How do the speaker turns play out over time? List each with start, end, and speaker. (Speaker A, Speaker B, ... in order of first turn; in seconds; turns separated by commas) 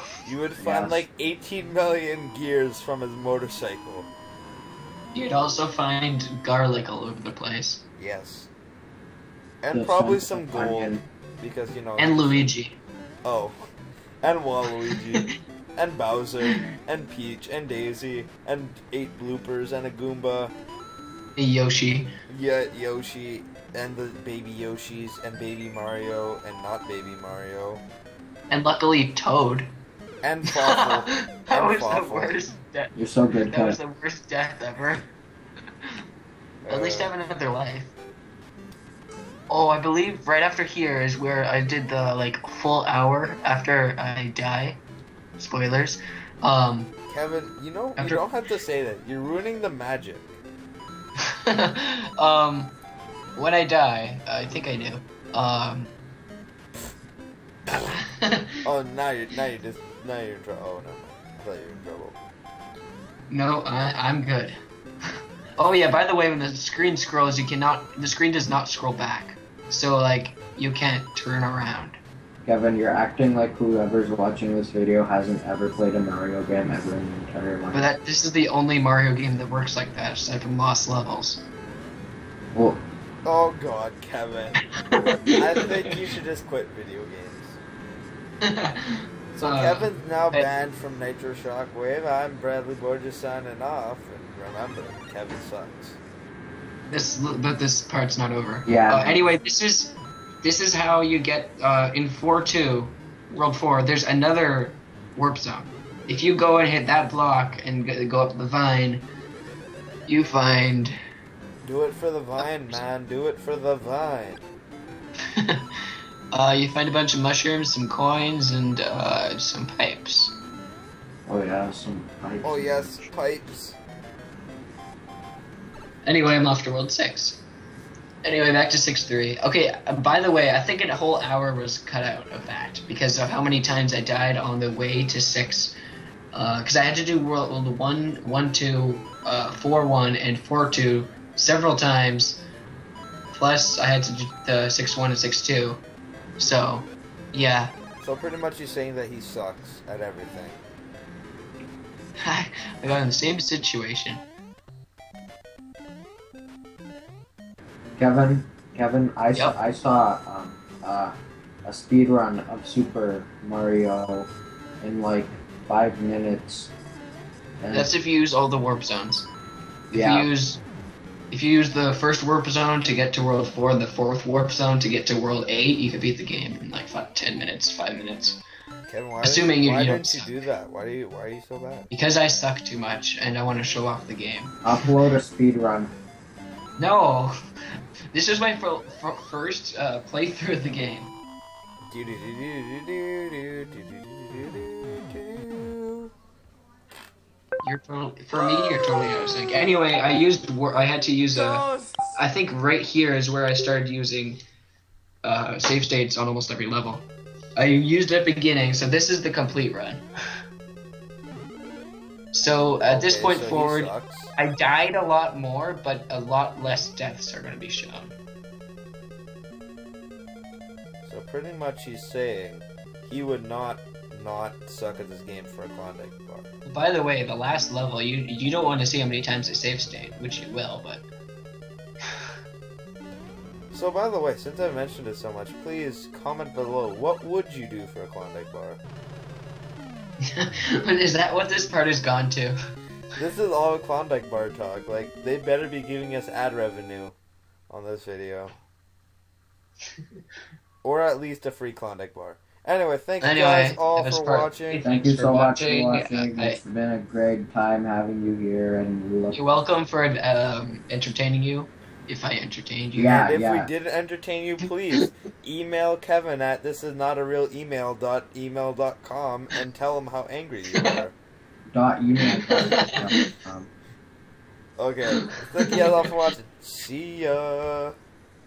Speaker A: 0.2-4.1, Speaker B: 0.6-1.1, Speaker C: 5.1-7.8, Speaker A: 8.0-8.5, Speaker A: 9.6-12.5, Speaker B: 9.7-11.0, Speaker C: 12.0-12.8, Speaker A: 13.2-13.6, Speaker A: 14.2-20.5, Speaker C: 21.4-22.1, Speaker A: 22.3-27.8, Speaker C: 28.5-29.7, Speaker A: 30.2-32.4, Speaker C: 30.6-32.9, Speaker B: 33.0-33.8, Speaker C: 33.4-35.0, Speaker A: 36.6-37.1, Speaker C: 36.7-37.9, Speaker C: 39.5-44.8, Speaker C: 45.4-46.9, Speaker A: 47.1-50.4, Speaker C: 48.0-48.2, Speaker C: 51.5-52.8, Speaker C: 53.4-55.9, Speaker C: 57.9-58.5, Speaker A: 58.6-62.2, Speaker C: 63.3-64.6, Speaker C: 65.6-72.0, Speaker B: 72.5-77.9, Speaker C: 77.7-81.4, Speaker B: 82.5-82.8, Speaker A: 83.2-84.6, Speaker C: 84.9-85.7, Speaker A: 85.3-87.6, Speaker C: 88.4-90.5, Speaker A: 89.3-96.0, Speaker C: 96.9-109.1, Speaker B: 98.7-99.3, Speaker C: 110.1-110.9, Speaker A: 111.6-114.4, Speaker C: 112.4-112.8, Speaker C: 115.4-115.6, Speaker C: 116.3-120.4, Speaker B: 121.3-122.7, Speaker A: 122.4-123.8, Speaker C: 126.0-127.4, Speaker C: 128.2-135.7, Speaker C: 136.3-142.4, Speaker C: 143.3-145.8, Speaker C: 146.4-147.7, Speaker A: 148.0-150.6, Speaker C: 152.2-154.2, Speaker B: 158.0-164.3, Speaker B: 164.8-166.7, Speaker B: 167.6-167.9, Speaker C: 167.7-169.3, Speaker C: 169.9-170.6, Speaker B: 169.9-170.3, Speaker C: 171.3-178.4, Speaker A: 178.9-181.9, Speaker C: 179.2-180.4, Speaker C: 181.9-184.6, Speaker B: 184.6-185.9, Speaker C: 186.8-187.3, Speaker C: 188.1-191.2, Speaker A: 191.9-196.1, Speaker C: 197.6-204.4, Speaker A: 198.7-199.1, Speaker A: 201.3-202.2, Speaker C: 205.2-210.1, Speaker C: 212.3-218.2, Speaker A: 212.8-214.3, Speaker A: 221.1-226.5, Speaker C: 226.7-231.1, Speaker A: 233.7-238.8, Speaker C: 240.3-242.6, Speaker A: 243.2-247.2, Speaker A: 247.7-248.5, Speaker A: 250.8-254.8, Speaker C: 253.2-256.6, Speaker B: 254.8-259.4, Speaker C: 259.3-263.3, Speaker B: 262.9-263.7, Speaker A: 263.1-271.1, Speaker B: 271.7-273.7, Speaker A: 274.8-277.9, Speaker C: 275.7-275.9